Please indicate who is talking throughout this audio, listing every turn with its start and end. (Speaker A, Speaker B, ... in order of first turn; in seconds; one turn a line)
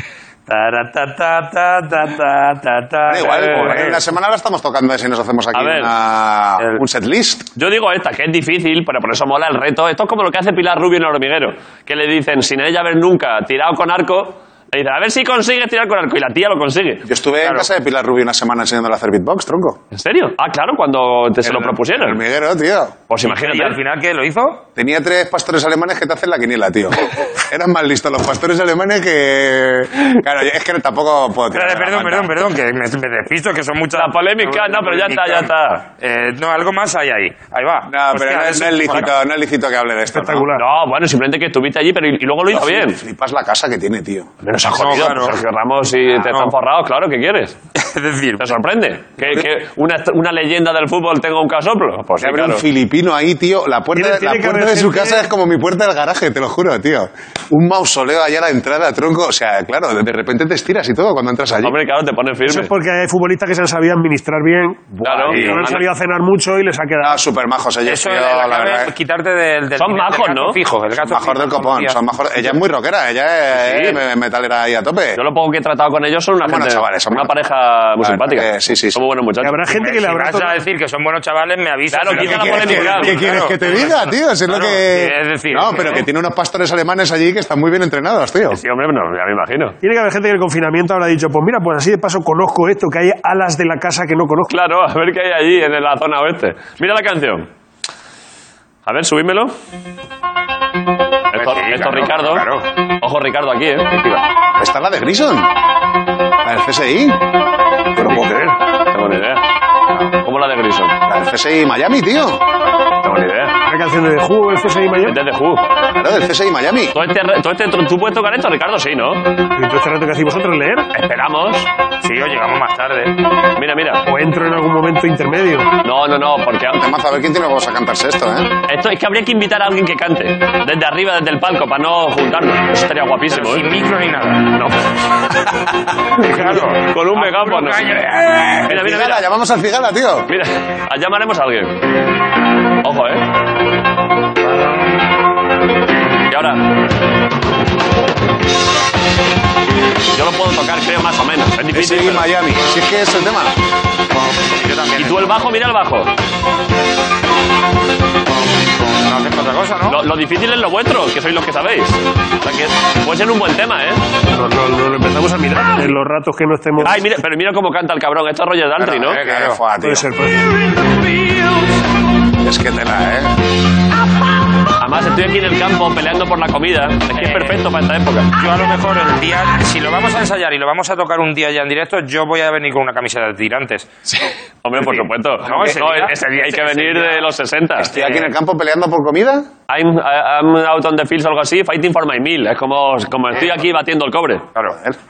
Speaker A: 0.5-4.0
Speaker B: 3.1-7.5
Speaker C: 5.5-5.9
Speaker C: 7.5-17.1
Speaker B: 17.1-19.8
Speaker A: 17.4-17.7
Speaker C: 19.9-22.2
Speaker B: 21.4-22.9
Speaker C: 23.1-23.8
Speaker A: 23.2-24.6
Speaker B: 24.8-32.4
Speaker A: 31.5-39.1
Speaker C: 33.9-35.8
Speaker B: 37.9-40.5
Speaker D: 40.1-40.6
Speaker C: 40.5-43.0
Speaker B: 42.5-44.3
Speaker C: 44.4-47.6
Speaker A: 44.7-45.4
Speaker A: 47.7-48.5
Speaker C: 48.4-52.6
Speaker B: 52.2-61.7
Speaker D: 54.0-55.3
Speaker C: 61.6-62.7
Speaker D: 62.4-67.2
Speaker C: 65.0-65.8
Speaker B: 65.2-65.7
Speaker B: 67.0-68.9
Speaker A: 67.8-72.0
Speaker C: 69.8-70.6
Speaker B: 70.9-75.2
Speaker C: 73.5-74.0
Speaker C: 75.2-79.6
Speaker B: 76.4-77.3
Speaker B: 78.0-79.0
Speaker D: 79.4-80.5
Speaker A: 79.7-86.0
Speaker C: 81.9-83.3
Speaker B: 82.0-88.6
Speaker C: 88.5-89.8
Speaker D: 89.8-94.5
Speaker C: 94.5-97.5
Speaker C: 98.8-99.5
Speaker C: 101.3-102.5
Speaker A: 101.3-102.7
Speaker C: 103.0-103.9
Speaker A: 103.9-104.2
Speaker B: 104.6-105.5
Speaker B: 106.4-107.2
Speaker B: 108.0-108.5
Speaker D: 108.0-108.5
Speaker C: 108.9-109.4
Speaker C: 110.2-111.0
Speaker B: 111.0-112.4
Speaker C: 113.0-113.6
Speaker D: 113.7-115.2
Speaker C: 115.0-115.7
Speaker B: 115.9-117.0
Speaker C: 116.9-119.3
Speaker D: 119.5-120.9
Speaker C: 120.9-121.7
Speaker A: 122.0-123.2
Speaker C: 123.5-124.0
Speaker D: 124.0-125.7
Speaker C: 125.8-126.8
Speaker B: 126.7-128.6
Speaker C: 128.7-133.6
Speaker A: 133.3-134.5
Speaker C: 134.5-134.8
Speaker C: 136.2-137.9
Speaker A: 136.2-138.6
Speaker B: 138.0-140.3
Speaker C: 138.7-139.3
Speaker C: 140.3-141.8
Speaker C: 142.8-143.2
Speaker C: 146.3-146.6
Speaker C: 150.1-152.3
Speaker B: 151.7-153.6
Speaker A: 154.5-155.3
Speaker C: 155.0-156.1
Speaker A: 158.8-160.0
Speaker C: 159.9-164.0
Speaker D: 164.3-167.0
Speaker C: 166.8-169.2
Speaker A: 168.8-169.6
Speaker B: 168.8-170.1
Speaker D: 169.8-170.7
Speaker B: 172.4-173.3
Speaker C: 174.8-178.3
Speaker A: 177.1-177.6
Speaker A: 178.3-183.9
Speaker C: 184.1-187.9
Speaker A: 184.8-187.2
Speaker B: 187.8-189.5
Speaker A: 188.0-188.2
Speaker C: 189.7-194.5
Speaker B: 194.7-194.9